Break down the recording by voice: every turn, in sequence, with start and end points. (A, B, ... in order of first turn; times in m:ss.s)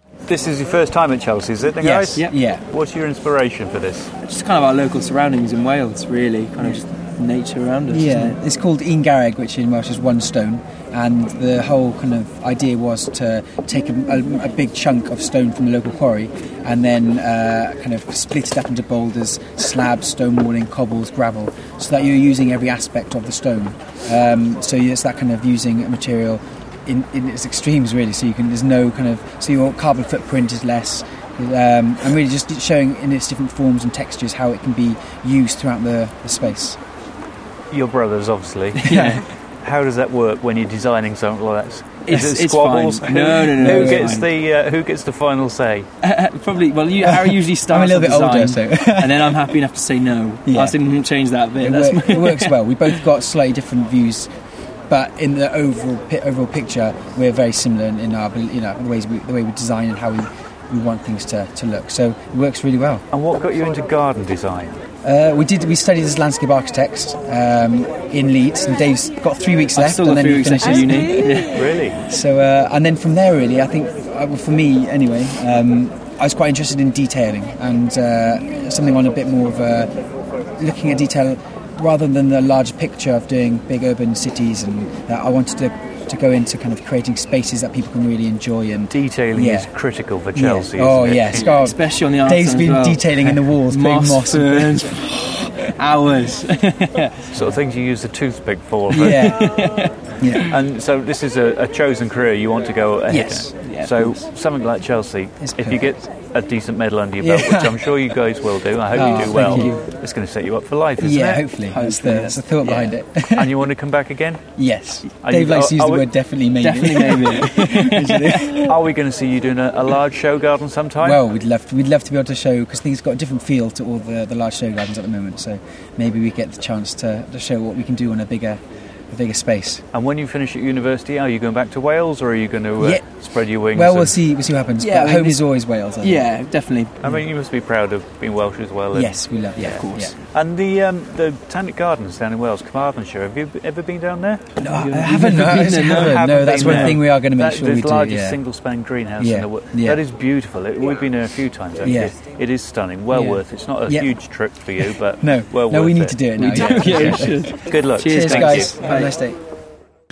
0:00.3-0:04.1 A
0:01.8-0:02.6 B
0:02.1-0:02.4 C
0:04.2-0:08.4 C
0:07.9-0:36.8 B
0:37.7-0:45.9 A
0:38.9-0:39.2 C
0:42.0-0:44.3 C
0:43.6-0:44.2 B
0:46.0-0:52.6 C
0:47.0-0:49.4 B
0:50.5-0:50.8 B
0:51.6-0:54.3 B
0:54.9-1:03.1 B
1:03.1-1:04.8 A
1:05.0-1:11.4 B
1:09.7-1:11.7 C
1:11.5-1:12.0 A
1:12.1-1:19.9 B
1:20.6-1:29.7 B
1:28.9-1:31.5 A
1:30.3-1:35.0 B
1:31.3-1:37.4 C
1:37.3-1:39.3 A
1:38.9-1:39.5 B
1:39.1-1:39.9 C
1:40.2-1:40.6 B
1:40.5-1:51.5 A
1:43.1-1:43.5 B
1:43.5-1:44.2 C
1:45.4-1:45.8 B
1:47.2-1:48.0 B
1:48.9-1:49.9 B
1:49.4-1:49.8 C
1:51.0-1:53.6 B
1:51.6-1:53.0 C
1:53.3-1:56.1 A
1:54.6-1:58.6 B
1:56.6-1:58.7 C
1:58.6-2:01.2 A
2:01.0-2:09.8 B
2:09.9-2:14.2 A
2:12.8-2:13.1 B
2:13.7-2:16.2 B
2:14.8-2:15.4 C
2:16.0-2:17.2 C
2:17.0-2:24.6 A
2:18.9-2:20.1 B
2:19.7-2:20.2 C
2:24.6-2:27.0 C
2:24.6-2:28.4 B
2:26.0-2:38.8 A
2:29.2-2:30.0 B
2:31.8-2:32.2 B
2:33.1-2:34.1 B
2:34.8-2:39.4 B
2:36.4-2:39.2 C